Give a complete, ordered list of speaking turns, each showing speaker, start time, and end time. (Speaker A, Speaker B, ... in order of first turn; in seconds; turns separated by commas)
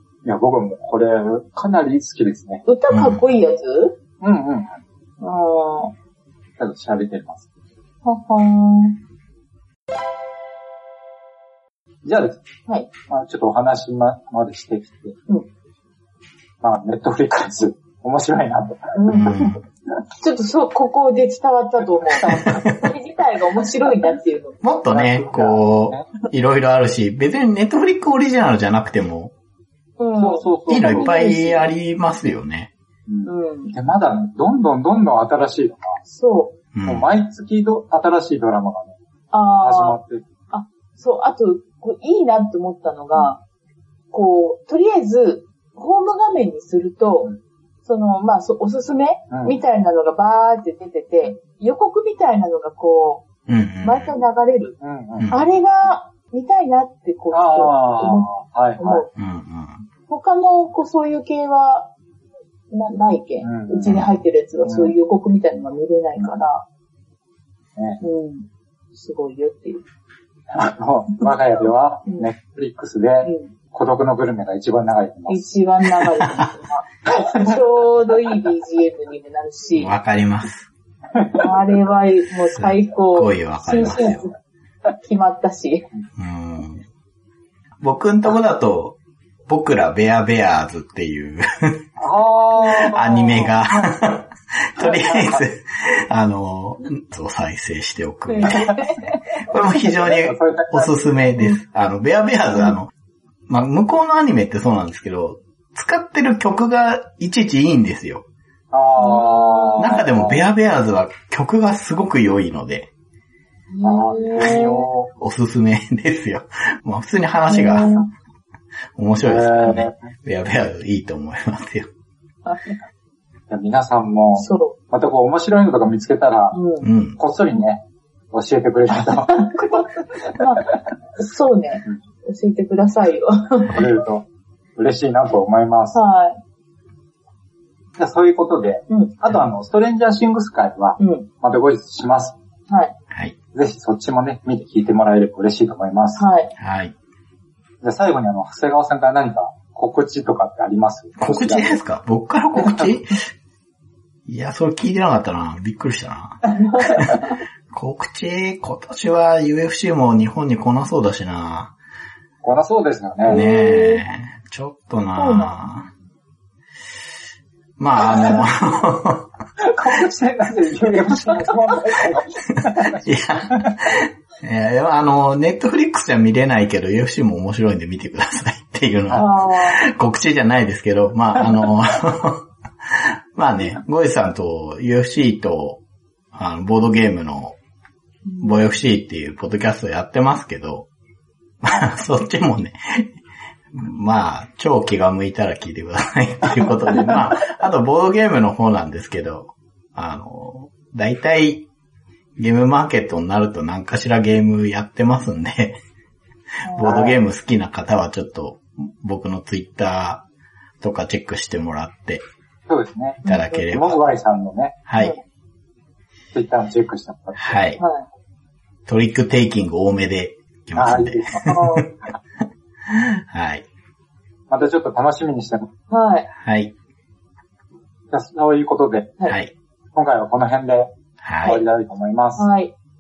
Speaker A: 0.2-2.6, Speaker B: 2.7-4.0, Speaker C: 2.9-3.2, Speaker A: 4.2-4.8, Speaker B: 5.2-5.9, Speaker A: 6.6-7.5, Speaker B: 8.1-9.0, Speaker A: 12.0-12.4, Speaker A: 13.1-15.2, Speaker A: 16.6-19.0, Speaker B: 18.9-19.5, Speaker C: 19.1-19.6, Speaker B: 20.2-24.6, Speaker A: 22.1-22.5, Speaker C: 24.6-29.3, Speaker A: 24.9-26.1, Speaker B: 30.0-31.6, Speaker A: 30.2-31.5, Speaker C: 30.7-32.7, Speaker A: 33.1-36.0, Speaker B: 33.2-33.7, Speaker B: 36.0-36.6, Speaker C: 36.7-37.1, Speaker A: 36.9-39.0, Speaker B: 39.3-40.0, Speaker A: 39.6-40.2, Speaker B: 40.5-43.4, Speaker B: 44.1-47.3, Speaker B: 47.8-53.3, Speaker A: 49.3-49.6, Speaker C: 53.5-54.2, Speaker B: 53.8-54.8, Speaker A: 54.8-55.3, Speaker C: 55.2-55.5, Speaker B: 55.3-59.1, Speaker A: 57.3-59.1, Speaker C: 59.2-59.9, Speaker B: 60.1-61.9, Speaker B: 62.7-66.7, Speaker A: 63.4-64.0, Speaker C: 63.9-64.2, Speaker A: 64.7-64.9, Speaker B: 68.0-69.8, Speaker A: 70.5-75.5, Speaker B: 73.2-73.5, Speaker B: 75.3-80.0, Speaker C: 79.7-80.7, Speaker A: 81.2-81.5, Speaker B: 81.4-84.3, Speaker C: 82.5-84.3, Speaker B: 85.0-85.8, Speaker C: 86.2-86.8, Speaker C: 87.8-89.0, Speaker C: 89.5-91.8, Speaker A: 92.0-93.5, Speaker C: 92.6-98.8, Speaker B: 92.6-93.9, Speaker A: 94.8-95.4, Speaker B: 98.3-99.2, Speaker A: 98.5-98.7, Speaker C: 99.4-102.9, Speaker A: 99.8-101.1, Speaker C: 103.5-108.2, Speaker A: 108.7-110.5, Speaker B: 109.0-110.0, Speaker C: 109.8-112.9, Speaker B: 113.7-114.9, Speaker A: 113.8-115.1, Speaker C: 115.2-118.1, Speaker B: 117.5-118.1, Speaker C: 119.0-121.9, Speaker A: 119.2-120.0, Speaker A: 123.5-126.6, Speaker B: 124.4-124.8, Speaker B: 126.5-126.9, Speaker C: 126.8-127.2, Speaker A: 127.2-129.8, Speaker B: 129.3-129.8, Speaker B: 130.3-134.0, Speaker A: 133.7-136.0, Speaker B: 135.9-136.4, Speaker A: 138.0-142.4, Speaker B: 141.0-141.3, Speaker B: 142.7-142.9, Speaker A: 143.5-146.2, Speaker B: 146.2-146.5, Speaker C: 146.6-146.9, Speaker A: 147.8-151.8, Speaker C: 151.2-153.2, Speaker A: 152.6-152.9, Speaker C: 154.3-157.2, Speaker B: 156.6-157.2, Speaker C: 157.7-161.7, Speaker A: 162.4-163.4, Speaker B: 163.3-164.1, Speaker C: 163.3-165.9, Speaker B: 165.2-165.6, Speaker C: 167.8-169.3, Speaker A: 169.7-173.7, Speaker C: 172.9-185.8, Speaker B: 179.1-179.8, Speaker C: 186.3-187.6, Speaker B: 188.3-188.7, Speaker C: 188.4-190.9, Speaker C: 191.6-193.1, Speaker C: 193.7-201.7, Speaker C: 202.4-205.8, Speaker B: 206.6-207.0, Speaker C: 206.7-210.2, Speaker A: 206.8-207.2, Speaker C: 210.8-212.2, Speaker A: 212.7-214.8, Speaker B: 213.2-213.7, Speaker C: 213.3-214.0, Speaker C: 214.9-215.2, Speaker A: 216.3-217.7, Speaker C: 217.4-217.8, Speaker B: 217.8-218.1, Speaker C: 218.9-221.9, Speaker A: 220.8-221.5, Speaker B: 221.4-221.9, Speaker B: 222.9-223.2, Speaker C: 223.2-223.7, Speaker A: 224.5-225.7, Speaker B: 225.9-226.3, Speaker C: 226.4-226.7, Speaker A: 228.1-229.2, Speaker C: 229.3-229.5, Speaker A: 229.9-232.5, Speaker C: 231.2-231.6, Speaker B: 232.4-232.7